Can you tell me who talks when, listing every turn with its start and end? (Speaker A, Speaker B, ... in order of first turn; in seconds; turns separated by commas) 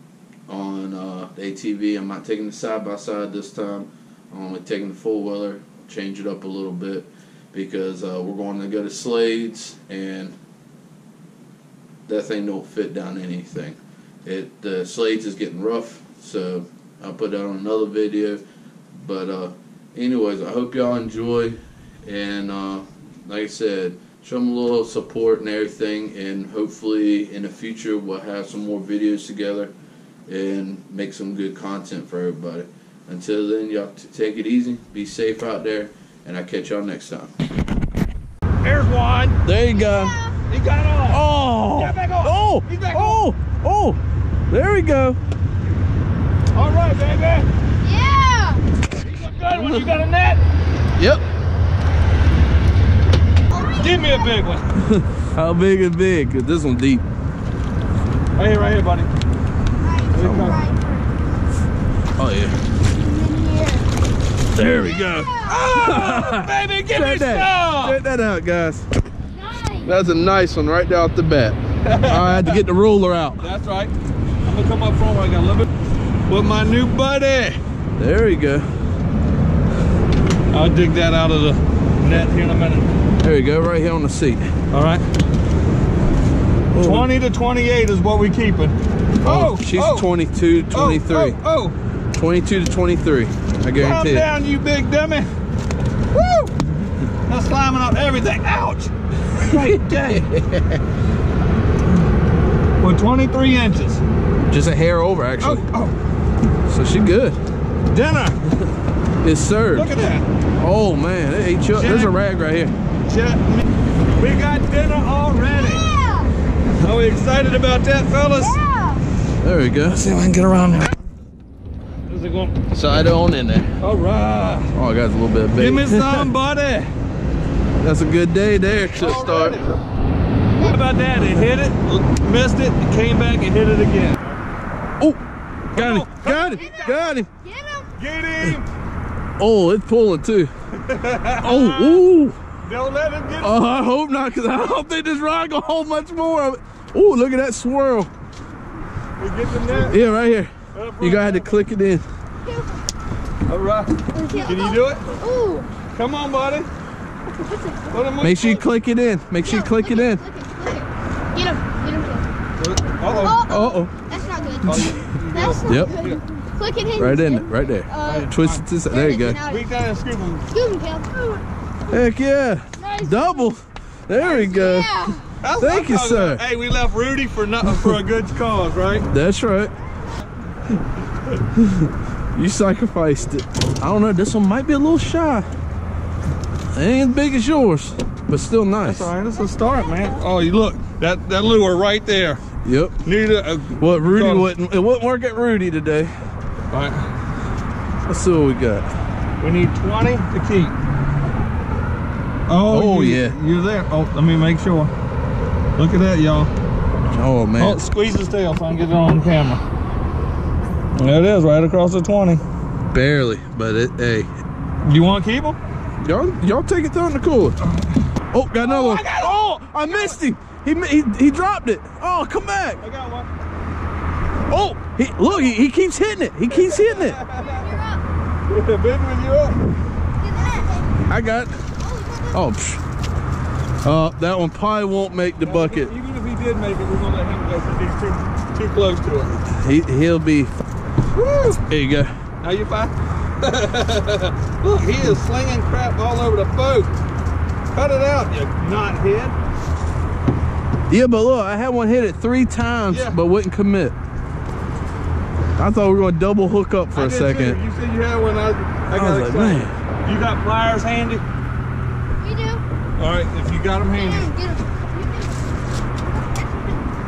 Speaker A: 0.5-10.4, Speaker A: 12.1-18.4, Speaker A: 18.9-29.7, Speaker A: 30.3-37.3, Speaker B: 38.6-39.4, Speaker A: 39.4-40.2, Speaker C: 39.7-40.4, Speaker B: 40.5-43.2, Speaker A: 41.1-45.2, Speaker B: 46.5-47.5, Speaker C: 47.8-48.6, Speaker B: 49.0-50.4, Speaker A: 49.5-49.9, Speaker A: 51.0-51.2, Speaker C: 53.5-54.3, Speaker B: 53.8-54.7, Speaker A: 54.9-57.0, Speaker B: 58.4-59.1, Speaker C: 59.8-61.2, Speaker B: 60.1-60.6, Speaker A: 60.2-60.6, Speaker A: 62.2-62.6, Speaker C: 62.9-63.9, Speaker A: 64.5-68.9, Speaker C: 64.6-65.7, Speaker B: 65.5-68.0, Speaker C: 69.3-69.9, Speaker A: 69.8-73.5, Speaker B: 71.8-72.6, Speaker B: 73.4-73.9, Speaker B: 74.5-75.7, Speaker B: 76.3-77.6, Speaker A: 78.0-78.9, Speaker B: 80.5-82.9, Speaker A: 83.2-84.5, Speaker B: 84.7-85.1, Speaker A: 86.7-87.1, Speaker B: 86.8-90.1, Speaker A: 89.2-91.4, Speaker B: 90.7-91.8, Speaker A: 92.1-94.3, Speaker B: 93.8-95.3, Speaker B: 96.1-96.5, Speaker B: 97.3-100.2, Speaker A: 99.5-100.8, Speaker B: 102.8-104.0, Speaker A: 104.5-105.7, Speaker B: 105.4-106.0, Speaker A: 106.7-107.4, Speaker B: 107.9-108.4, Speaker A: 109.2-110.0, Speaker B: 109.7-110.3, Speaker A: 110.6-112.8, Speaker B: 111.7-112.1, Speaker B: 113.1-113.6, Speaker B: 114.2-116.0, Speaker C: 115.4-116.3, Speaker B: 116.8-118.6, Speaker C: 118.4-119.0, Speaker A: 119.4-120.9, Speaker B: 122.1-122.6, Speaker A: 122.7-123.8, Speaker B: 123.8-124.7, Speaker A: 124.7-126.3, Speaker B: 125.6-126.9, Speaker A: 127.8-129.6, Speaker B: 129.0-129.8, Speaker B: 130.6-134.4, Speaker B: 135.7-136.9, Speaker A: 135.8-137.3, Speaker C: 136.5-137.9, Speaker B: 138.0-138.7, Speaker A: 139.4-140.5, Speaker B: 140.8-142.0, Speaker A: 141.4-142.4, Speaker B: 142.6-143.6, Speaker A: 143.4-148.1, Speaker B: 149.2-150.0, Speaker C: 149.7-150.2, Speaker A: 149.9-152.1, Speaker B: 150.7-151.6, Speaker C: 152.4-152.8, Speaker B: 153.5-155.1, Speaker C: 154.1-155.7, Speaker B: 155.9-156.7, Speaker C: 157.3-158.0, Speaker B: 157.9-158.7, Speaker A: 158.2-160.2, Speaker C: 159.4-162.3, Speaker B: 162.6-163.4, Speaker C: 163.0-168.3, Speaker A: 163.5-164.0, Speaker B: 164.6-166.2, Speaker A: 164.7-165.0, Speaker A: 165.7-166.0, Speaker A: 167.0-169.4, Speaker B: 168.0-168.6, Speaker C: 168.8-169.7, Speaker B: 169.4-170.5, Speaker C: 170.5-171.4, Speaker A: 171.9-174.9, Speaker C: 172.8-173.5, Speaker C: 174.2-175.3, Speaker B: 175.4-179.1, Speaker A: 175.6-176.4, Speaker A: 179.1-179.7, Speaker A: 181.6-185.5, Speaker A: 186.7-189.1, Speaker B: 188.8-192.4, Speaker C: 189.6-190.0, Speaker A: 192.6-193.0, Speaker B: 193.0-194.5, Speaker A: 193.8-196.1, Speaker B: 196.7-197.1, Speaker A: 198.1-198.9, Speaker B: 199.4-200.8, Speaker B: 202.5-204.9, Speaker A: 202.7-203.4, Speaker B: 205.8-206.5, Speaker A: 207.1-207.8, Speaker B: 207.6-209.6, Speaker B: 211.0-212.4, Speaker A: 212.9-214.3, Speaker B: 214.8-215.6, Speaker A: 216.0-217.6, Speaker A: 218.3-222.8, Speaker B: 218.6-220.2, Speaker B: 222.8-223.3, Speaker A: 224.5-227.2, Speaker B: 226.5-227.8, Speaker C: 227.3-228.1, Speaker B: 228.5-229.6, Speaker C: 230.2-231.0, Speaker A: 231.1-231.7, Speaker C: 231.8-232.4, Speaker A: 232.3-232.8, Speaker A: 233.8-235.9, Speaker B: 235.4-239.4, Speaker A: 239.5-240.5, Speaker B: 241.1-241.6, Speaker A: 241.7-242.1, Speaker B: 242.4-246.9, Speaker B: 247.7-249.4, Speaker A: 250.9-254.0, Speaker B: 252.9-253.2, Speaker A: 255.6-257.6, Speaker B: 256.9-261.2, Speaker A: 258.9-259.7, Speaker C: 262.2-262.6, Speaker B: 263.0-264.3, Speaker C: 263.9-265.5, Speaker C: 266.1-266.9